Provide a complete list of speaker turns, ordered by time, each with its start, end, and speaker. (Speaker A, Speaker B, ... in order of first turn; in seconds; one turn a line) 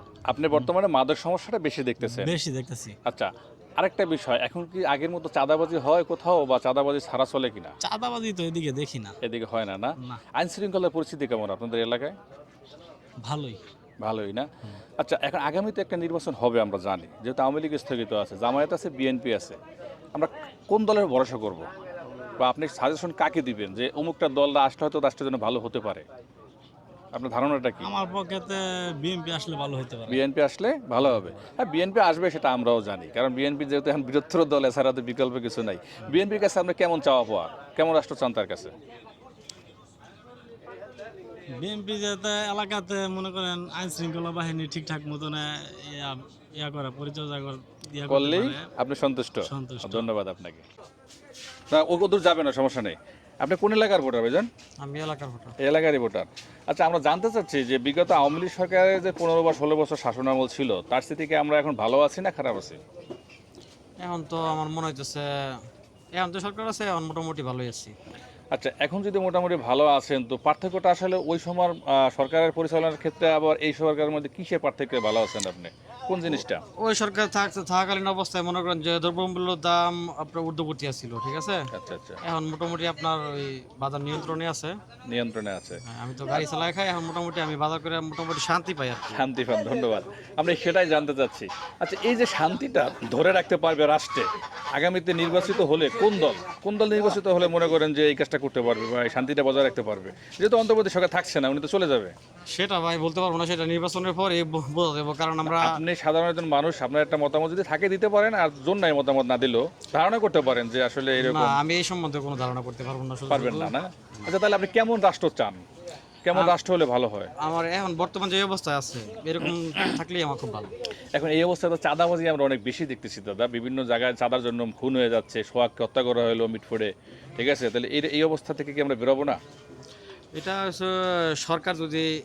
Speaker A: 0.2-2.4
Speaker B: 2.0-2.9
Speaker A: 3.0-7.7
Speaker B: 7.8-9.1
Speaker A: 9.2-12.2
Speaker B: 13.2-13.6
Speaker A: 14.0-14.5
Speaker A: 15.0-19.6
Speaker A: 20.1-21.6
Speaker A: 22.4-26.1
Speaker A: 27.1-27.9
Speaker B: 27.8-30.2
Speaker A: 30.1-38.7
Speaker B: 41.5-48.7
Speaker A: 48.1-50.6
Speaker B: 49.4-50.1
Speaker A: 51.7-54.5
Speaker C: 54.8-55.5
Speaker A: 55.6-62.8
Speaker C: 64.0-65.3
Speaker C: 66.1-67.9
Speaker A: 68.5-76.6
Speaker C: 76.8-81.7
Speaker A: 81.7-82.2
Speaker C: 82.2-84.8
Speaker A: 85.1-86.4
Speaker C: 85.8-89.2
Speaker A: 89.1-102.1
Speaker C: 102.5-105.8
Speaker A: 105.5-111.6
Speaker C: 111.2-114.3
Speaker A: 113.3-115.6
Speaker A: 116.2-117.3
Speaker C: 117.4-120.7
Speaker A: 121.1-129.4
Speaker C: 130.3-132.1